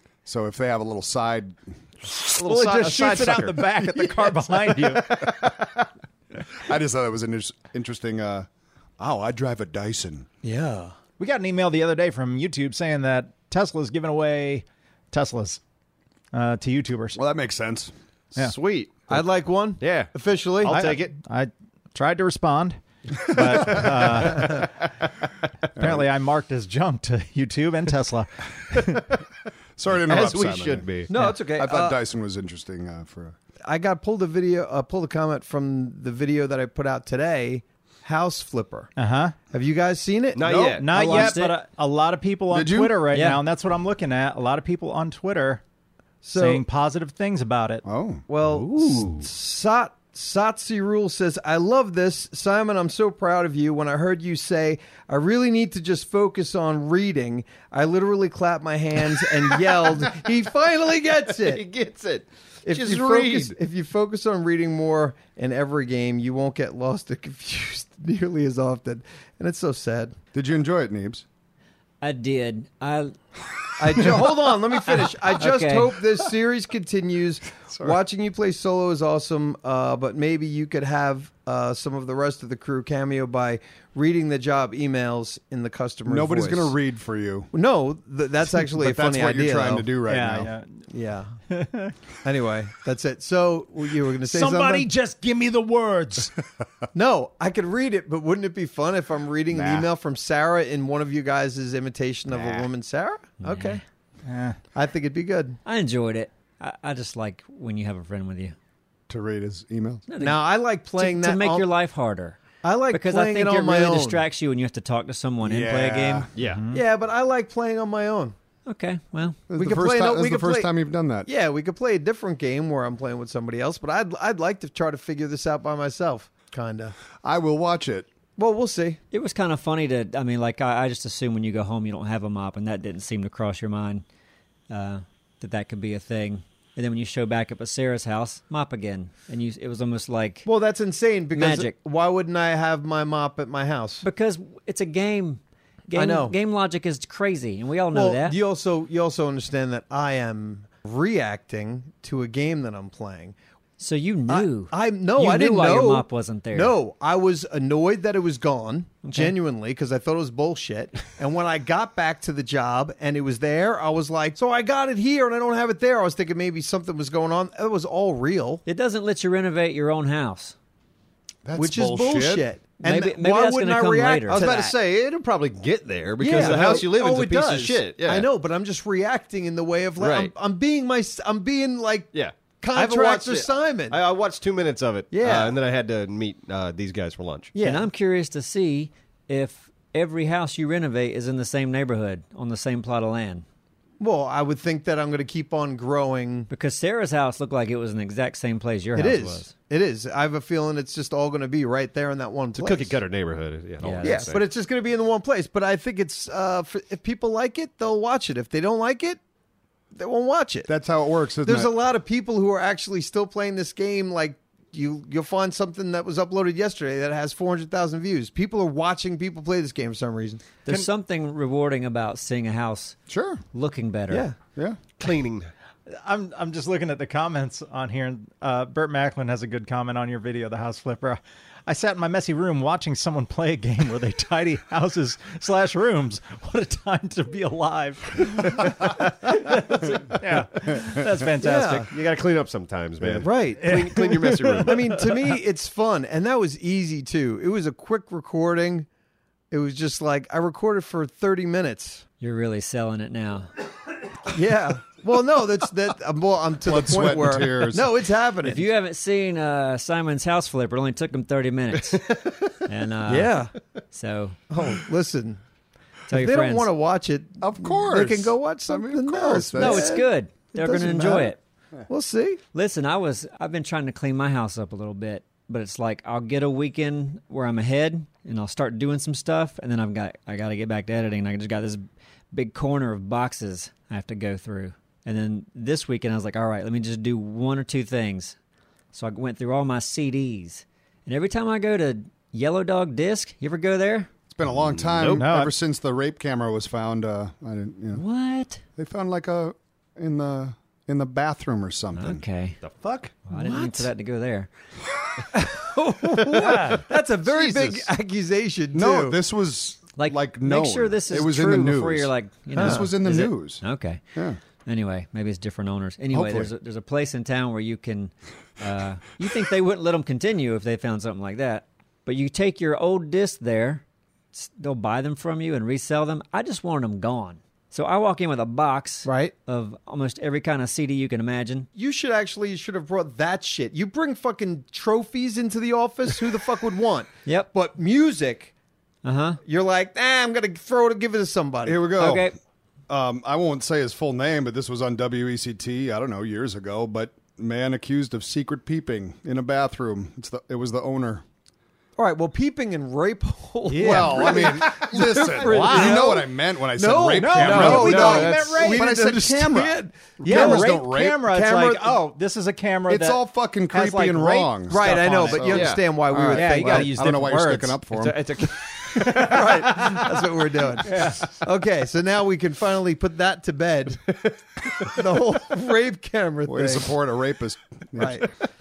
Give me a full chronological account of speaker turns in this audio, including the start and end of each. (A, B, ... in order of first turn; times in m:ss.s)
0:00.2-0:01.6 A
0:02.2-0:05.7 B
0:02.4-0:05.2 C
0:06.6-0:08.5 A
0:09.0-0:10.3 A
0:10.4-0:11.0 D
0:11.2-0:15.6 C
0:16.3-0:17.2 C
0:17.2-0:17.9 A
0:18.4-0:19.2 B
0:19.1-0:20.9 D
0:19.8-0:21.1 B
0:20.6-0:24.7 C
0:23.5-0:23.9 A
0:23.8-0:24.7 B
0:25.8-0:26.1 A
0:25.8-0:29.1 C
0:29.8-0:33.4 A
0:29.9-0:31.1 B
0:31.1-0:32.0 D
0:33.6-0:38.9 D
0:39.0-0:39.4 C
0:39.5-0:41.4 D
0:40.4-0:41.2 B
0:40.7-0:45.6 C
0:40.9-0:41.6 E
0:42.5-0:43.0 A
0:43.1-0:43.4 E
0:46.2-0:46.6 D
0:46.4-0:47.8 C
0:47.8-0:48.2 A
0:48.3-1:01.6 D
0:48.5-0:49.2 B
1:01.4-1:03.6 B
1:02.7-1:10.2 D
1:10.3-1:11.2 A
1:12.0-1:13.1 E
1:13.8-1:26.7 D
1:14.0-1:14.3 A
1:15.2-1:16.0 E
1:17.7-1:18.0 A
1:26.1-1:27.5 A
1:27.5-1:30.0 D
1:28.6-1:30.5 A
1:30.1-1:30.8 C
1:30.9-1:31.4 D
1:31.5-1:31.9 C
1:32.2-1:34.9 D
1:34.2-1:36.4 C
1:36.9-1:43.6 D
1:39.5-1:39.9 A
1:42.3-1:42.7 A
1:43.4-1:43.8 E
1:44.2-1:44.6 C
1:44.7-1:45.6 D
1:45.6-1:48.6 E
1:49.1-1:50.0 A
1:50.1-1:50.4 E
1:50.2-1:51.7 D
1:51.0-1:56.3 E
1:52.6-1:54.2 D
1:55.4-1:56.3 A
1:56.4-1:56.6 B
1:56.5-1:56.8 C
1:56.7-1:58.4 D
1:58.7-1:59.4 E
1:59.5-2:01.3 A
1:59.5-2:00.7 D
2:01.2-2:07.0 D
2:07.2-2:08.1 A
2:08.4-2:09.0 D
2:09.1-2:14.0 E
2:14.7-2:20.5 E
2:20.4-2:24.0 D
2:21.3-2:21.8 E
2:24.0-2:28.4 E
2:26.0-2:26.4 D
2:27.9-2:33.4 D
2:33.8-2:36.8 E
2:34.3-2:48.6 D
2:39.0-2:39.3 E
2:48.7-2:50.6 E
2:51.4-2:52.5 A
2:51.6-2:54.8 D
2:52.8-2:54.5 E
2:54.3-2:58.3 B
2:56.2-3:04.0 D
3:00.0-3:00.3 B
3:02.1-3:07.5 B
3:05.1-3:05.6 D
3:07.5-3:07.9 D
3:07.6-3:13.4 E
3:14.0-3:16.5 D
3:16.5-3:19.5 E
3:19.0-3:23.0 D
3:22.6-3:24.5 B
3:23.8-3:24.3 E
3:24.0-3:29.2 D
3:29.9-3:30.7 D
3:30.7-3:31.8 A
3:31.4-3:40.5 D
3:40.6-3:43.0 E
3:43.1-3:43.4 A
3:43.5-3:44.3 E
3:44.1-3:44.4 D
3:45.0-3:45.5 B
3:46.0-4:01.9 C
4:01.4-4:01.9 D
4:01.7-4:04.9 B
4:03.2-4:03.9 D
4:03.6-4:04.7 C
4:04.6-4:08.9 D
4:09.5-4:12.0 D
4:12.2-4:13.5 E
4:14.3-4:18.7 D
4:16.6-4:17.9 A
4:18.4-4:23.4 E
4:23.1-4:23.5 D
4:23.9-4:24.4 E
4:24.5-4:25.4 D
4:26.1-4:26.7 E
4:26.1-4:31.4 D
4:27.4-4:30.0 A
4:29.6-4:31.4 E
4:31.9-4:32.4 D
4:32.5-4:48.4 E
4:48.9-4:54.1 E
4:54.3-4:58.0 A
4:54.6-4:55.2 B
4:55.1-4:55.5 C
4:57.9-4:58.6 E
4:58.8-5:02.2 A
5:02.0-5:02.6 E
5:02.6-5:03.1 B
5:03.3-5:04.5 E
5:03.3-5:03.9 D
5:05.3-5:09.2 D
5:06.4-5:07.9 B
5:08.7-5:13.6 A
5:10.0-5:14.0 E
5:12.6-5:12.9 D
5:14.6-5:31.7 E
5:16.1-5:16.5 A
5:29.0-5:29.3 D
5:31.8-5:38.5 D
5:39.0-5:39.4 E
5:39.4-5:41.8 D
5:41.6-5:42.3 A
5:42.0-5:42.4 E
5:42.9-5:51.2 A
5:52.0-6:02.0 D
5:53.7-5:54.6 C
5:53.8-6:01.3 A
5:55.1-5:56.1 C
5:57.2-5:58.9 C
5:57.3-5:58.6 B
6:00.2-6:05.7 C
6:02.9-6:08.2 A
6:04.7-6:07.1 D
6:05.5-6:05.8 B
6:06.3-6:07.8 C
6:07.9-6:08.8 B
6:08.8-6:16.9 D
6:09.0-6:10.1 C
6:10.8-6:11.3 C
6:16.5-6:18.3 A
6:18.0-6:18.3 D